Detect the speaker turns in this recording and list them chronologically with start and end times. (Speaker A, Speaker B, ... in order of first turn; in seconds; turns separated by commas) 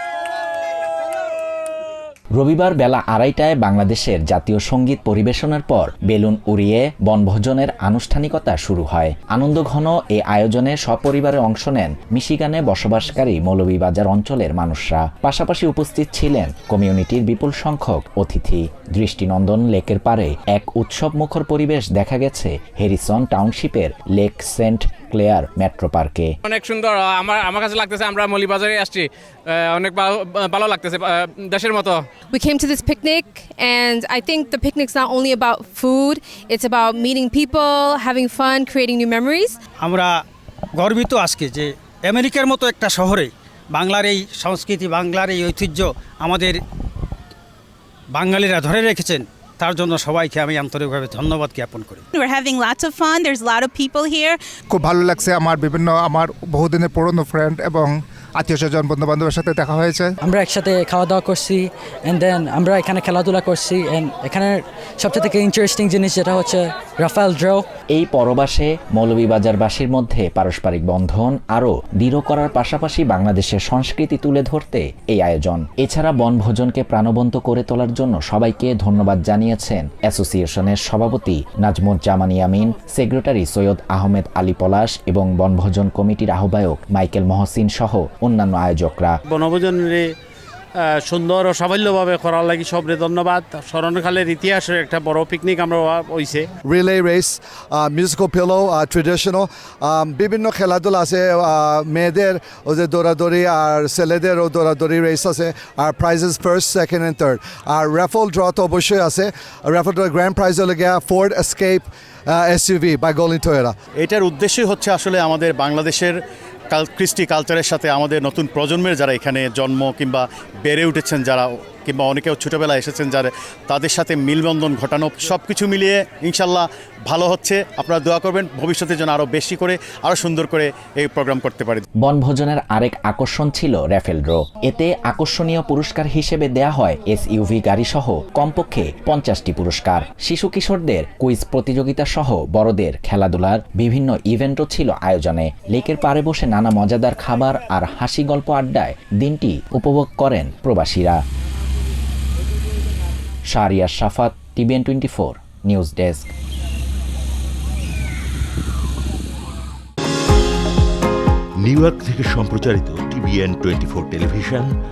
Speaker A: 2.4-26.3, Speaker B: 26.5-32.1, Speaker C: 32.3-39.6, Speaker D: 39.8-40.2, Speaker D: 40.8-46.6, Speaker D: 48.1-52.0, Speaker E: 52.1-54.4, Speaker F: 54.7-60.1, Speaker G: 60.2-67.7, Speaker A: 67.9-89.2, Speaker H: 89.3-90.1, Speaker H: 90.8-96.5, Speaker I: 96.7-113.8, Speaker J: 114.0-116.2, Speaker J: 116.7-131.8, Speaker A: 132.0-151.2, Speaker A: 153.5-156.3, Speaker K: 161.6-164.7